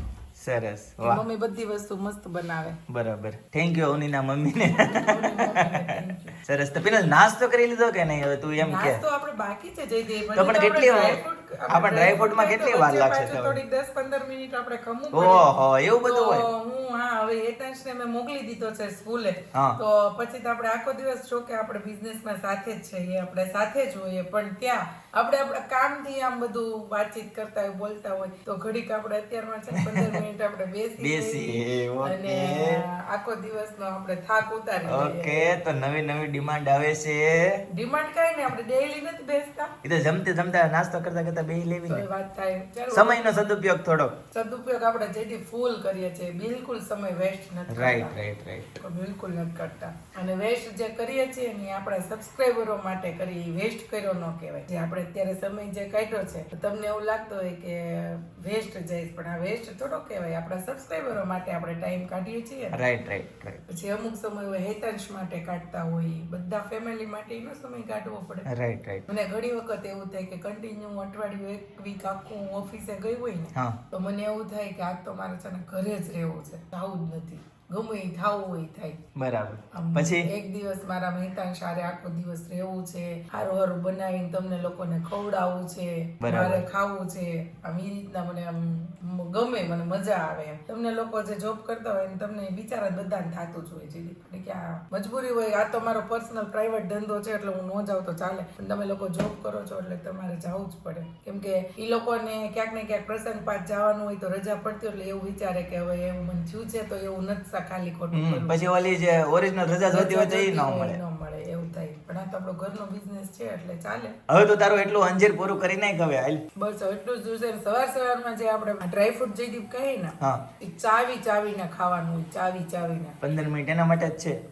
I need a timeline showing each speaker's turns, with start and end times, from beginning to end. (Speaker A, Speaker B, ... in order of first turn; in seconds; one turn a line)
Speaker A: 0.4-1.2
Speaker B: 1.0-2.8
Speaker A: 2.9-9.0
Speaker B: 4.6-6.3
Speaker B: 8.6-35.5
Speaker A: 10.4-11.2
Speaker A: 11.7-13.6
Speaker A: 15.1-16.4
Speaker A: 19.5-19.8
Speaker A: 29.8-30.2
Speaker A: 31.0-32.8
Speaker A: 34.9-37.6
Speaker B: 37.7-39.7
Speaker A: 39.8-42.0
Speaker B: 41.9-43.5
Speaker A: 42.9-44.2
Speaker B: 44.3-48.1
Speaker A: 47.7-48.8
Speaker B: 48.8-62.8
Speaker A: 62.7-63.6
Speaker B: 63.7-68.5
Speaker A: 68.5-69.0
Speaker B: 69.1-79.0
Speaker A: 79.2-80.3
Speaker B: 79.8-108.6
Speaker A: 86.2-86.6
Speaker A: 108.1-111.0
Speaker B: 109.9-114.2
Speaker A: 114.3-116.4
Speaker B: 116.6-123.2
Speaker A: 123.2-124.4